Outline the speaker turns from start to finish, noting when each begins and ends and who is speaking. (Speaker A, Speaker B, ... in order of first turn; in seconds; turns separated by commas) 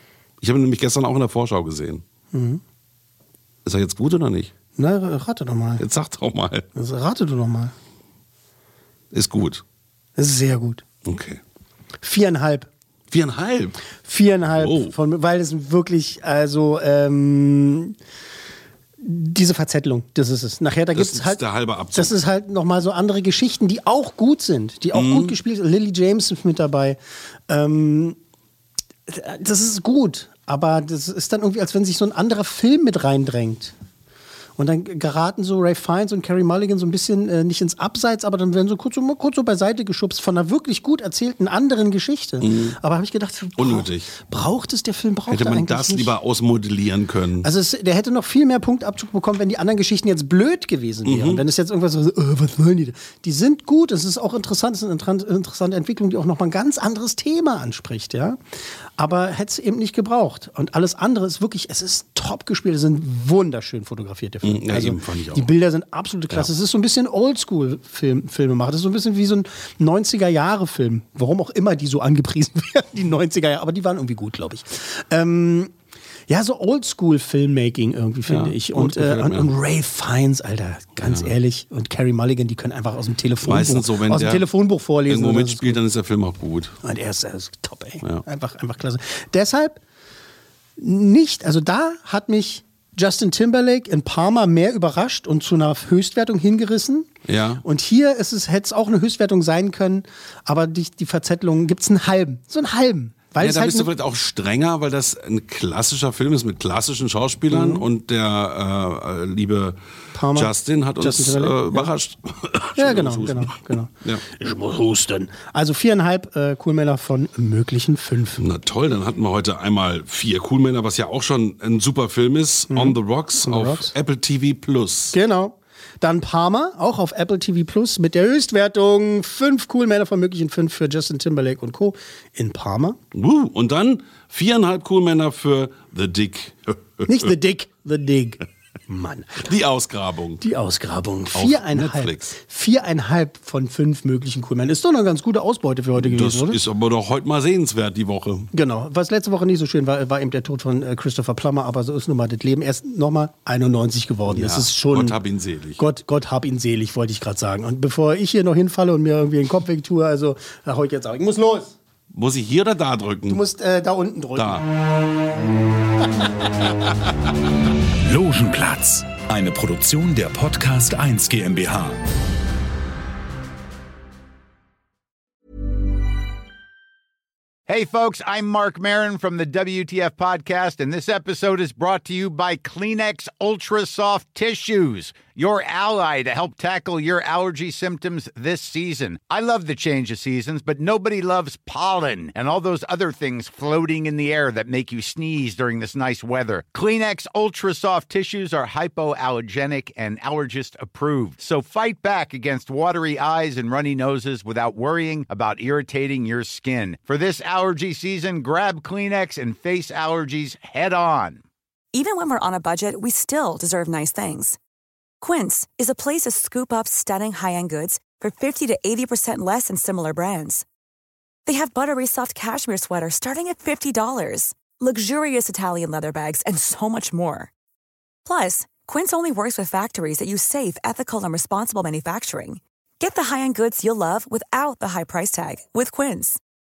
Speaker A: 0.4-2.0, Speaker B: 2.3-2.6, Speaker A: 3.6-4.5, Speaker B: 4.8-5.8, Speaker A: 5.8-6.7, Speaker B: 6.8-7.7, Speaker A: 9.1-9.6, Speaker B: 10.2-10.8, Speaker A: 11.0-11.4, Speaker B: 12.0-12.7, Speaker A: 13.1-13.8, Speaker B: 14.1-18.0, Speaker A: 14.5-14.9, Speaker B: 19.0-27.0, Speaker A: 20.9-22.2, Speaker A: 24.9-25.4, Speaker B: 27.5-28.2, Speaker B: 29.1-33.8, Speaker B: 34.6-46.1, Speaker A: 42.4-42.8, Speaker A: 43.6-44.1, Speaker A: 45.3-47.5, Speaker B: 47.4-58.4, Speaker A: 51.0-51.4, Speaker B: 59.0-75.7, Speaker A: 64.4-65.5, Speaker B: 76.3-85.8, Speaker A: 78.3-79.5, Speaker A: 81.0-81.3, Speaker A: 83.5-84.5, Speaker A: 85.1-86.8, Speaker B: 86.8-89.8, Speaker B: 90.8-97.1, Speaker A: 97.3-97.6, Speaker B: 97.6-103.9, Speaker A: 103.4-109.8, Speaker B: 107.5-107.8, Speaker B: 110.1-111.9, Speaker A: 110.3-114.2, Speaker B: 112.8-118.5, Speaker A: 118.4-125.2, Speaker B: 122.7-123.9, Speaker B: 125.1-133.0, Speaker A: 133.1-137.3, Speaker B: 137.1-139.5, Speaker A: 139.4-140.4, Speaker B: 140.4-146.6, Speaker A: 141.3-142.3, Speaker A: 146.0-148.5, Speaker B: 148.5-155.2, Speaker A: 154.3-155.8, Speaker B: 155.8-161.8, Speaker A: 162.1-163.4, Speaker B: 163.3-164.6, Speaker A: 164.3-164.7, Speaker C: 168.1-172.0, Speaker D: 177.7-211.4, Speaker E: 211.9-214.6, Speaker E: 215.2-220.7, Speaker E: 221.5-227.5, Speaker E: 228.2-236.4